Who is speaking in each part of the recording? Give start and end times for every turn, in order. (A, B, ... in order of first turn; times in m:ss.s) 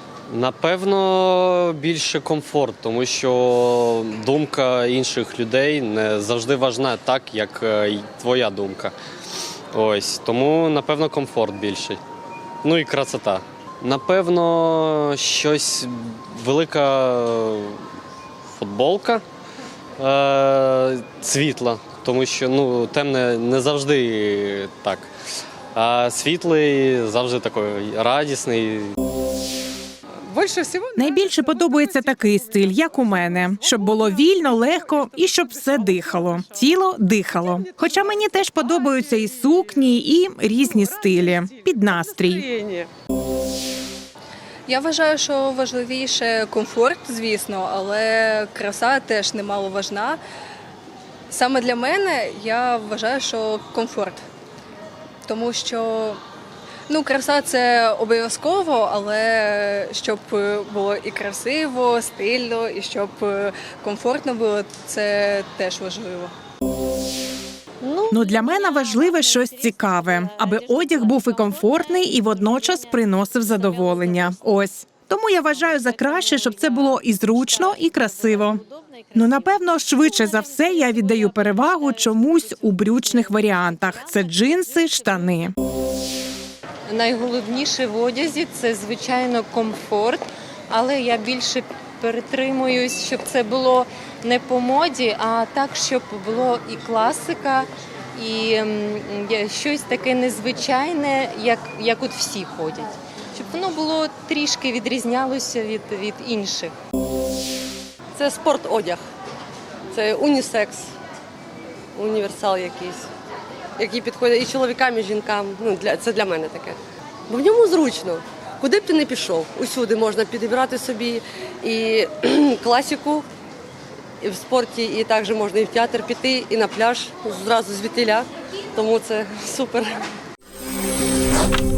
0:00.3-0:08.9 A
0:09.7-0:12.0 A
0:12.6-0:17.8 A
0:18.5-0:19.2 A
0:20.0-0:25.1 A
0:25.7-0:29.0 A
0:30.9-0:42.5 B
0:44.7-0:50.2 C
0:51.3-0:54.2 C
0:55.3-0:56.2 C
0:56.9-1:06.3 C
1:08.0-1:25.5 B
1:26.9-1:46.7 D
1:48.2-1:49.0 E
1:49.9-1:50.9 E
1:51.9-1:53.1 E
1:53.8-2:03.2 E
2:04.2-2:10.0 E